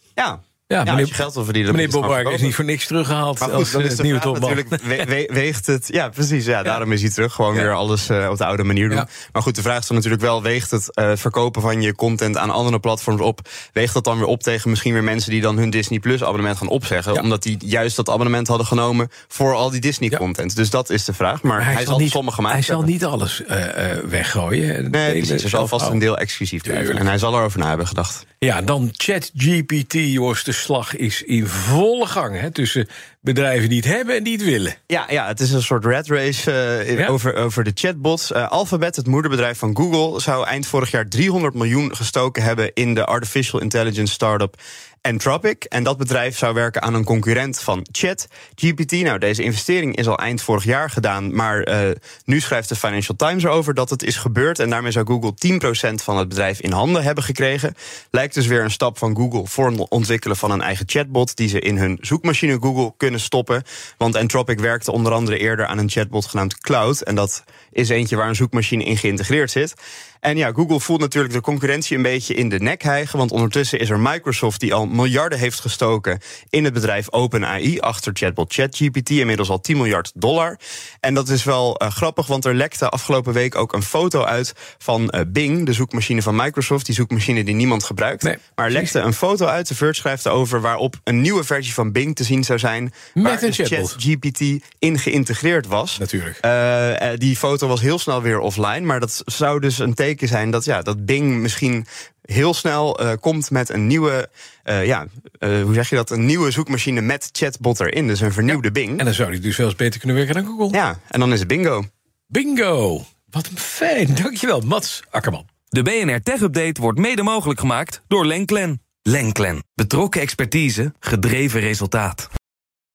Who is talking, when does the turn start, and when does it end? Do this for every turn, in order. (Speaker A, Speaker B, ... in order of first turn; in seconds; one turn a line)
Speaker A: 0.2-2.5
Speaker B: 0.7-5.1
Speaker A: 3.4-22.9
Speaker B: 21.6-26.0
Speaker A: 24.9-28.2
Speaker B: 26.6-27.0
Speaker B: 28.4-34.8
Speaker A: 34.9-109.0
Speaker B: 88.2-88.9
Speaker B: 93.2-94.0
Speaker B: 96.0-96.4
Speaker B: 108.5-110.8
Speaker A: 110.7-111.9
Speaker B: 112.3-115.5
Speaker C: 115.7-122.3